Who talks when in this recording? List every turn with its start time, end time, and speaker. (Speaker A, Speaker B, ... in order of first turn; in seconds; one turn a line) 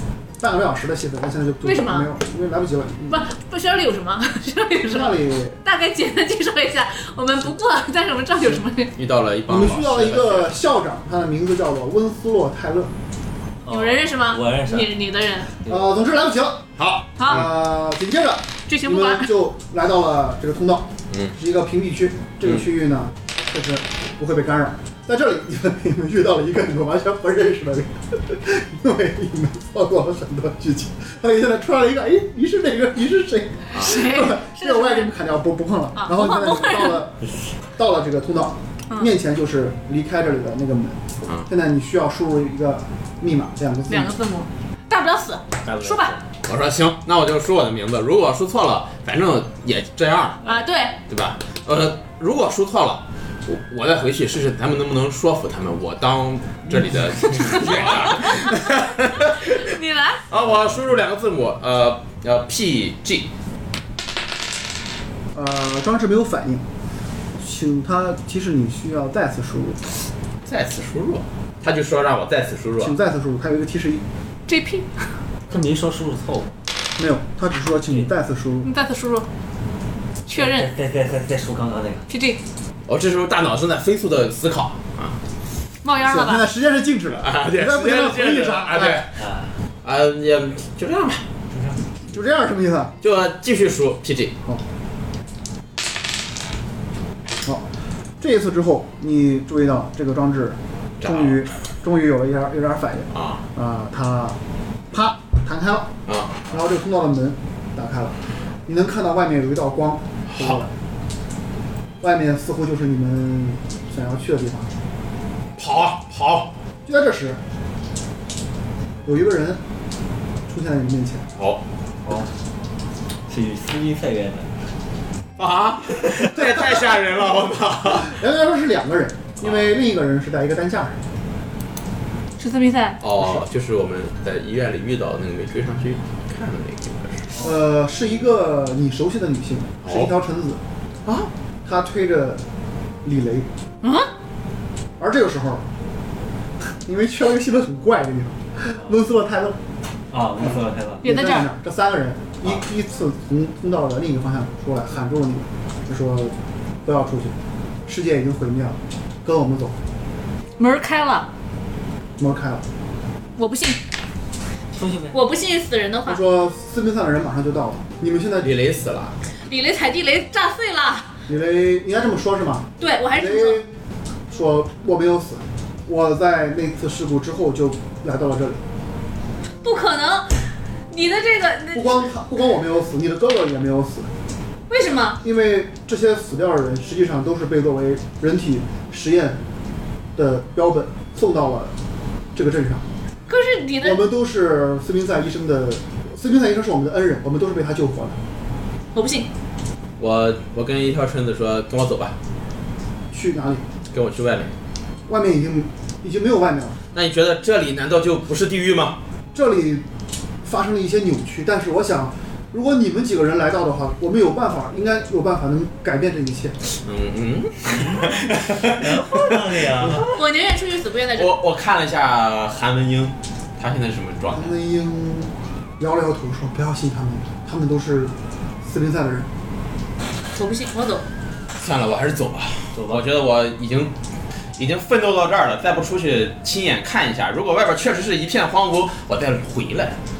Speaker A: 0.4-3.2
Speaker B: 1.6-2.1
Speaker B: 3.1-8.9
Speaker A: 4.9-5.6
Speaker C: 8.9-10.6
Speaker A: 9.5-12.9
Speaker D: 13.6-14.9
Speaker B: 13.7-15.5
Speaker A: 15.7-16.6
Speaker C: 16.8-17.5
Speaker B: 17.2-17.4
Speaker A: 17.2-37.2
Speaker B: 18.7-19.3
Speaker B: 33.7-35.1
Speaker B: 36.0-37.0
Speaker A: 37.8-44.1
Speaker B: 43.9-46.1
Speaker D: 45.6-46.2
Speaker C: 46.4-50.5
Speaker B: 50.4-51.0
Speaker C: 51.1-59.7
Speaker B: 57.4-58.5
Speaker B: 59.2-60.2
Speaker C: 60.3-63.3
Speaker A: 65.3-66.6
Speaker A: 67.4-69.8
Speaker C: 70.5-73.0
Speaker A: 72.8-74.0
Speaker B: 74.5-74.9
Speaker D: 75.5-76.5
Speaker A: 77.0-78.7
Speaker B: 78.6-79.2
Speaker B: 80.3-80.7
Speaker D: 80.3-82.1
Speaker B: 82.1-82.4
Speaker C: 82.9-85.2
Speaker B: 85.8-86.4
Speaker A: 86.0-89.0
Speaker C: 87.2-89.1
Speaker D: 89.2-89.5
Speaker C: 89.8-91.2
Speaker D: 91.5-91.8
Speaker A: 92.1-93.0
Speaker C: 93.0-94.3
Speaker A: 98.2-104.4
Speaker C: 101.0-101.5
Speaker C: 103.1-103.4
Speaker A: 104.9-105.9
Speaker C: 106.1-106.5
Speaker A: 106.5-110.7
Speaker A: 112.0-114.7
Speaker C: 115.6-116.5
Speaker A: 116.8-117.4
Speaker A: 119.0-119.6
Speaker A: 120.5-121.3
Speaker D: 123.3-124.5
Speaker C: 125.4-128.2
Speaker A: 126.3-127.1
Speaker A: 127.8-131.0
Speaker C: 129.4-129.7
Speaker B: 132.4-133.0
Speaker C: 133.0-137.4
Speaker A: 137.4-142.4
Speaker C: 139.8-140.1
Speaker A: 143.0-143.5
Speaker B: 143.8-144.1
Speaker A: 145.0-145.6
Speaker A: 146.8-149.6
Speaker D: 150.1-151.0
Speaker B: 151.0-151.5
Speaker A: 151.0-156.3
Speaker A: 156.8-157.3
Speaker A: 157.8-159.8
Speaker B: 160.6-161.3
Speaker A: 162.2-162.6
Speaker B: 163.4-163.8
Speaker D: 164.7-165.2
Speaker B: 165.1-166.2
Speaker A: 166.1-168.5
Speaker C: 168.4-169.2
Speaker B: 169.5-171.1
Speaker A: 171.3-173.7
Speaker B: 172.8-173.6
Speaker A: 174.3-178.6
Speaker B: 179.6-180.3
Speaker B: 180.9-182.1
Speaker A: 181.7-184.1
Speaker B: 184.7-185.2
Speaker A: 185.2-189.4
Speaker A: 190.2-191.7
Speaker A: 192.3-192.8
Speaker B: 193.3-194.0
Speaker A: 193.8-198.2
Speaker B: 198.9-199.3
Speaker C: 200.0-202.2
Speaker A: 203.1-203.6
Speaker C: 203.9-204.5
Speaker A: 205.1-206.8
Speaker C: 206.9-209.0
Speaker A: 209.3-209.8
Speaker A: 210.4-216.6
Speaker C: 216.7-220.2
Speaker D: 217.7-220.1
Speaker B: 220.1-221.3
Speaker C: 221.1-224.6
Speaker A: 224.3-229.3
Speaker B: 230.3-231.0
Speaker C: 231.5-233.9
Speaker D: 232.7-233.0
Speaker C: 234.6-240.0